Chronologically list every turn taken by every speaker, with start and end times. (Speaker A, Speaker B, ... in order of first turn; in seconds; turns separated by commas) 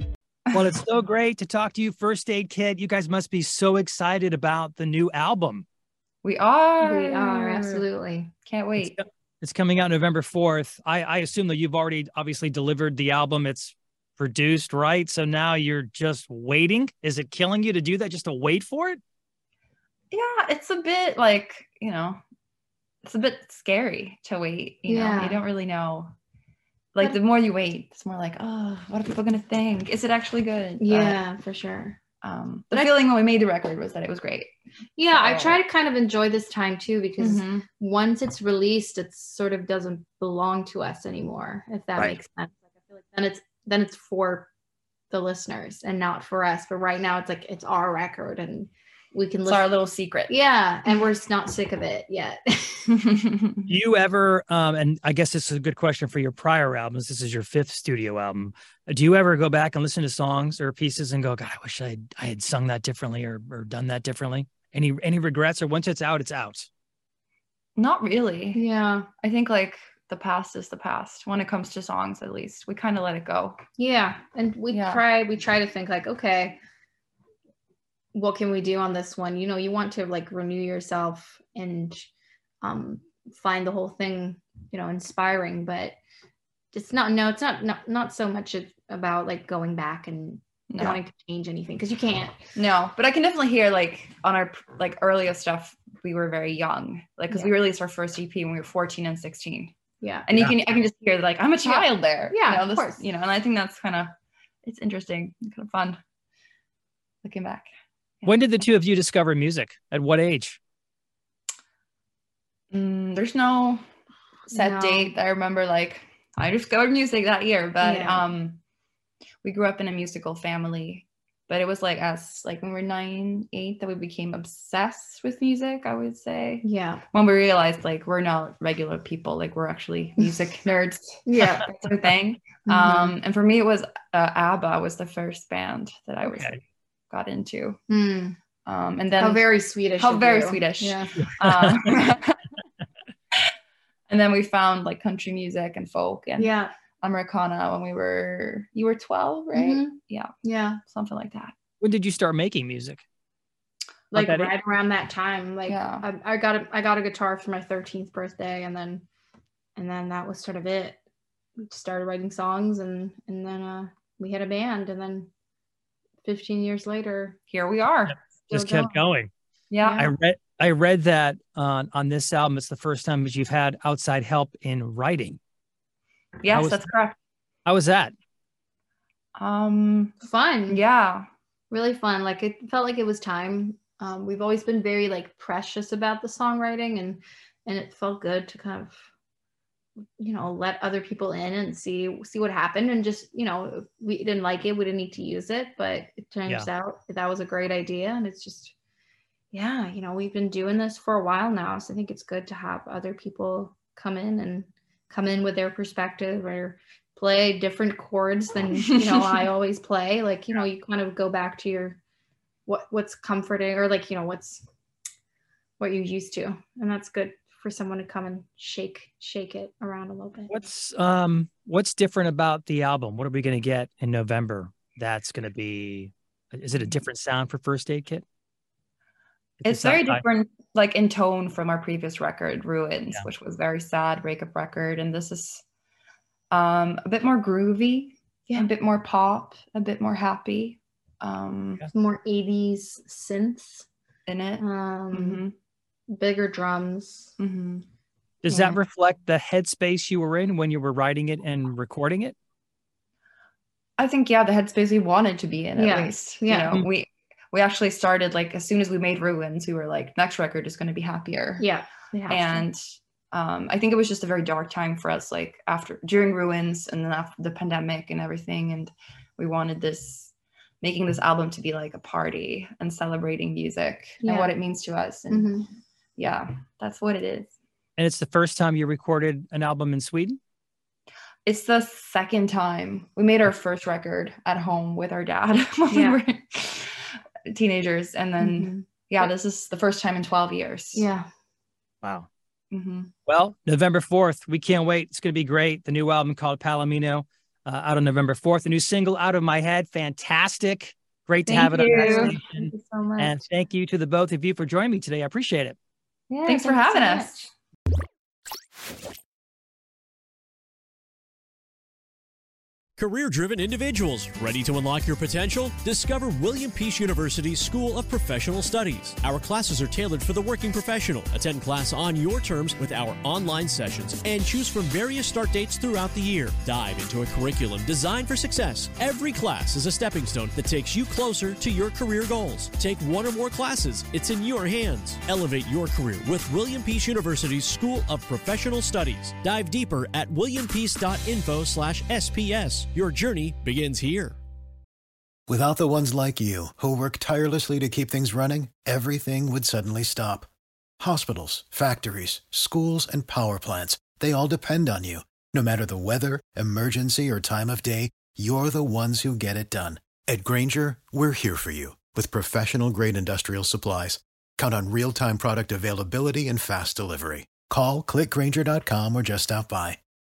Speaker A: 0.5-5.7, Speaker B: 6.2-7.8, Speaker C: 6.8-8.3, Speaker B: 8.5-9.0, Speaker A: 8.8-19.0, Speaker B: 20.1-22.2, Speaker B: 23.0-26.1, Speaker C: 24.9-25.4, Speaker B: 26.9-31.2, Speaker C: 30.8-32.0, Speaker B: 32.2-34.5, Speaker C: 35.0-44.5, Speaker B: 35.1-35.6, Speaker B: 37.2-37.6, Speaker C: 45.1-49.7, Speaker B: 49.5-50.4, Speaker C: 50.3-53.0, Speaker B: 53.1-53.7, Speaker A: 53.7-66.7, Speaker B: 67.8-68.6, Speaker C: 68.5-69.1, Speaker B: 69.2-73.6, Speaker C: 73.8-76.6, Speaker B: 74.7-75.0, Speaker C: 78.1-86.0, Speaker C: 86.7-92.4, Speaker B: 90.7-91.0, Speaker B: 92.5-99.8, Speaker C: 100.0-100.3, Speaker B: 100.3-106.0, Speaker C: 101.6-103.1, Speaker B: 107.2-107.7, Speaker A: 108.2-110.6, Speaker B: 112.7-113.8, Speaker C: 114.5-115.1, Speaker B: 114.5-118.6, Speaker C: 117.8-118.3, Speaker B: 119.4-137.8, Speaker C: 126.6-127.0, Speaker C: 131.3-131.7, Speaker C: 132.7-133.2, Speaker A: 136.2-136.6, Speaker C: 137.9-138.4, Speaker B: 138.7-139.4, Speaker C: 139.2-141.3, Speaker B: 140.0-142.4, Speaker A: 141.2-141.8, Speaker B: 144.1-150.3, Speaker C: 146.4-146.7, Speaker C: 149.5-150.8, Speaker B: 150.9-151.5, Speaker A: 151.8-153.0, Speaker C: 154.1-159.1, Speaker A: 154.1-154.5, Speaker B: 155.7-156.1, Speaker C: 159.8-161.0, Speaker C: 161.6-165.3, Speaker C: 166.2-167.4, Speaker B: 167.5-168.2, Speaker C: 168.5-169.0, Speaker A: 168.5-169.3, Speaker B: 169.7-170.1, Speaker C: 169.8-170.1, Speaker A: 170.0-175.4, Speaker B: 176.4-177.2, Speaker A: 176.5-176.8, Speaker A: 177.7-178.1, Speaker B: 179.4-180.2, Speaker C: 180.2-180.8, Speaker B: 180.7-181.3, Speaker C: 181.7-189.0, Speaker C: 190.2-198.7, Speaker C: 199.5-212.0, Speaker C: 212.7-214.7, Speaker C: 215.8-220.6, Speaker A: 220.5-228.2, Speaker A: 229.6-230.2, Speaker B: 229.7-235.6, Speaker B: 236.5-241.8, Speaker C: 241.9-243.9, Speaker B: 244.3-245.5, Speaker C: 244.6-245.4, Speaker C: 246.1-247.3, Speaker B: 247.4-247.9, Speaker A: 248.4-252.4, Speaker C: 248.5-248.8, Speaker B: 254.0-261.7, Speaker C: 255.8-256.9, Speaker C: 261.6-262.7, Speaker B: 262.3-275.5, Speaker C: 274.2-274.6, Speaker C: 275.3-275.7, Speaker B: 276.2-277.5, Speaker A: 278.0-280.4, Speaker B: 281.4-291.1, Speaker C: 285.9-286.2, Speaker C: 288.4-289.3, Speaker C: 290.9-291.3, Speaker B: 292.7-293.1, Speaker A: 293.3-305.8, Speaker B: 301.5-303.3, Speaker C: 301.8-302.4, Speaker C: 306.3-307.5, Speaker B: 306.3-307.5, Speaker D: 313.0-344.4, Speaker E: 345.5-350.5, Speaker E: 351.0-370.0